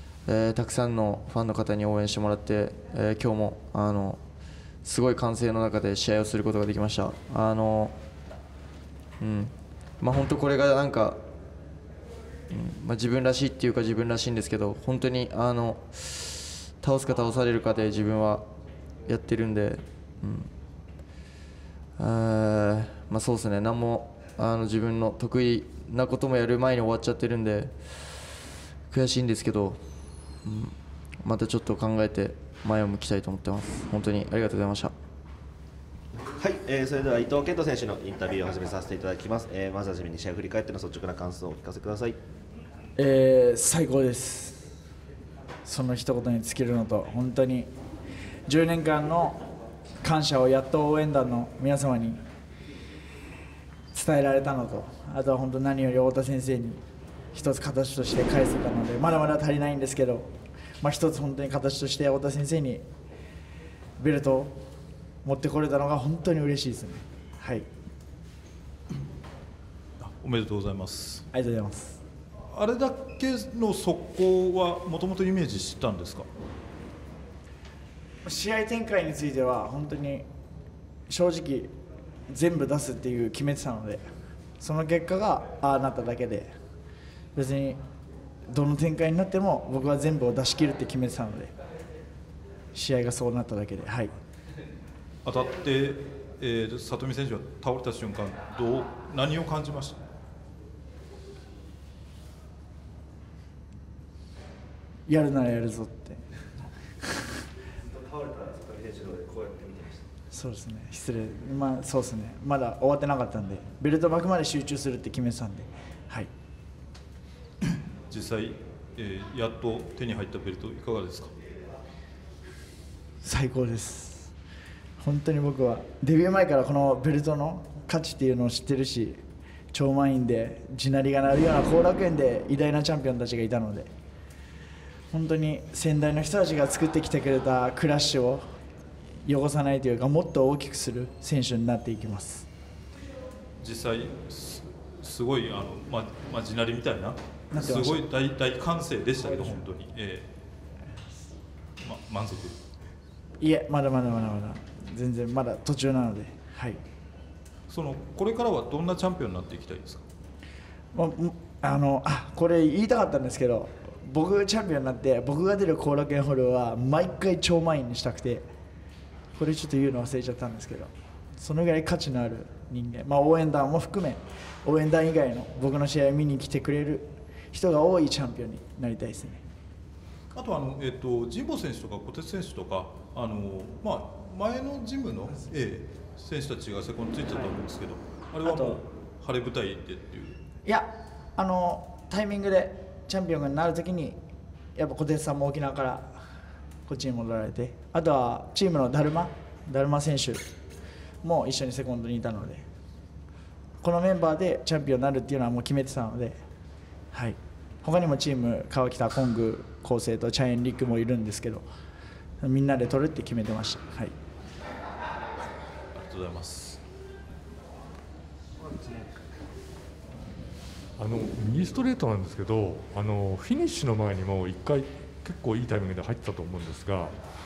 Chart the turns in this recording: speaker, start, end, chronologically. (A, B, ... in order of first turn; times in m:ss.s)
0:00.2-0:04.2 A
0:04.8-0:08.0 A
0:09.2-0:11.2 A
0:12.5-0:18.4 A
0:19.0-0:20.5 A
0:22.0-0:28.2 A
0:28.9-0:29.8 A
0:30.4-0:34.9 A
0:36.2-0:42.2 B
0:43.0-0:44.7 C
0:45.6-0:47.7 C
0:48.5-0:49.4 C
0:50.0-0:52.2 C
0:53.9-0:56.8 C
0:57.3-1:00.3 C
1:00.8-1:02.8 C
1:04.0-1:04.6 C
1:05.2-1:07.7 C
1:10.0-1:11.3 D
1:11.3-1:12.0 C
1:12.5-1:16.3 D
1:18.2-1:20.2 C
1:21.1-1:21.7 C
1:22.3-1:24.0 C
1:24.6-1:26.5 C
1:27.3-1:27.8 C
1:28.5-1:31.5 C
1:32.7-1:34.2 C
1:35.2-1:40.0 D
1:45.1-1:46.2 C
1:47.0-1:47.3 C
1:47.8-1:50.0 B
1:50.3-1:56.3 C
1:58.1-2:01.3 D
2:03.2-2:04.3 C
2:05.0-2:09.2 C
2:09.7-2:13.9 C
2:15.1-2:18.5 C
2:19.2-2:22.4 C
2:23.6-2:30.3 D
2:27.5-2:28.1 C
2:31.8-2:32.6 D
2:33.4-2:36.8 C
2:37.7-2:40.0 D
2:40.9-2:48.5 C
2:49.3-2:59.4 C
3:00.3-3:10.4 D
3:08.4-3:08.8 C
3:10.6-3:14.2 C
3:14.8-3:16.2 C
3:16.8-3:20.4 C
3:21.2-3:22.6 C
3:23.8-3:26.4 C
3:27.1-3:31.6 C
3:32.4-3:34.1 C
3:35.9-3:36.8 D
3:38.6-3:39.4 B
3:41.0-3:47.2 E